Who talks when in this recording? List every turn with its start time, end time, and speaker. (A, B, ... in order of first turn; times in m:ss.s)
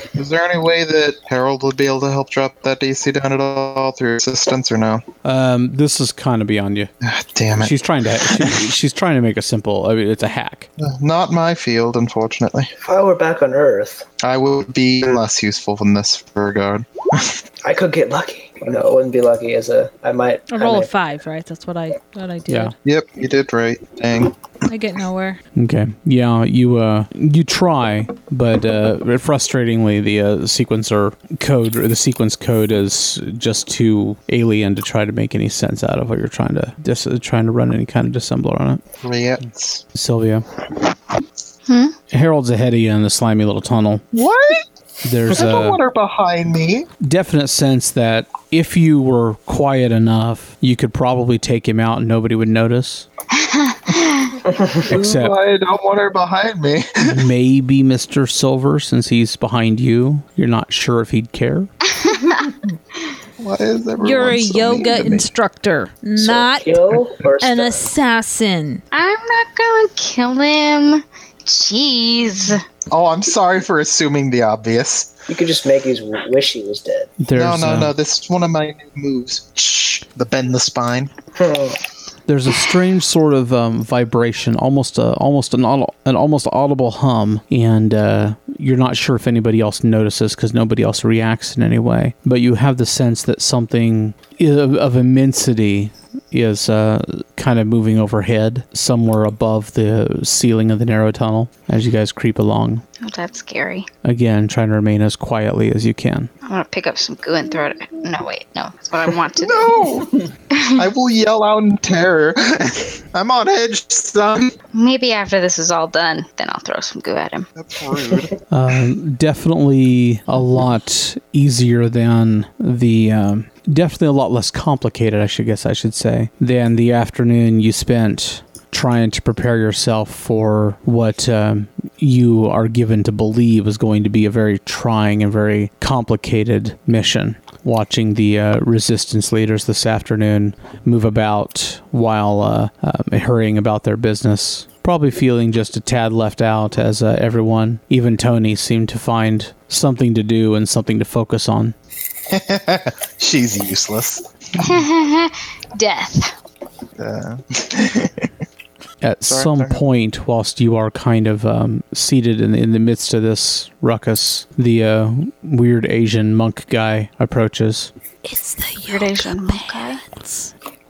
0:00.2-0:05.0 A
0:05.2-0:06.9 B
0:07.0-0:08.6 A
0:07.6-0:10.7 B
0:10.8-0:12.7 A
0:12.8-0:14.1 C
0:14.2-0:17.4 A
0:17.6-0:21.0 C
0:20.5-0:22.7 D
0:22.5-0:22.7 B
0:22.8-0:24.4 A
0:24.7-0:25.4 D
0:25.6-0:38.8 B
0:39.0-0:39.8 A
0:40.0-0:40.4 B
0:41.7-0:42.0 E
0:42.1-0:44.0 B
0:44.1-0:44.6 A
0:45.0-0:45.8 B
0:45.3-0:46.9 A
0:47.0-0:53.1 B
0:53.4-0:54.3 E
0:54.8-0:57.3 A
0:54.9-0:55.4 B
0:57.0-1:01.7 B
1:02.0-1:02.4 E
1:03.4-1:05.3 A
1:04.0-1:06.9 D
1:06.2-1:07.9 C
1:07.4-1:08.8 D
1:08.9-1:12.6 E
1:12.9-1:15.1 A
1:15.3-1:17.1 C
1:17.2-1:17.9 B
1:17.3-1:21.1 A
1:21.4-1:21.8 C
1:22.3-1:42.8 B
1:43.0-1:43.9 E
1:44.0-1:46.3 B
1:46.4-1:49.8 E
1:49.4-1:50.2 A
1:50.6-1:50.8 E
1:50.8-1:54.5 A
1:54.7-1:57.5 E
1:57.6-1:58.3 A
1:58.5-2:31.8 B
2:32.3-2:34.8 A
2:34.6-2:36.4 E
2:37.0-2:38.3 A
2:39.0-2:47.9 B
2:39.2-2:39.8 A
2:48.2-2:50.5 D
2:48.8-2:50.0 E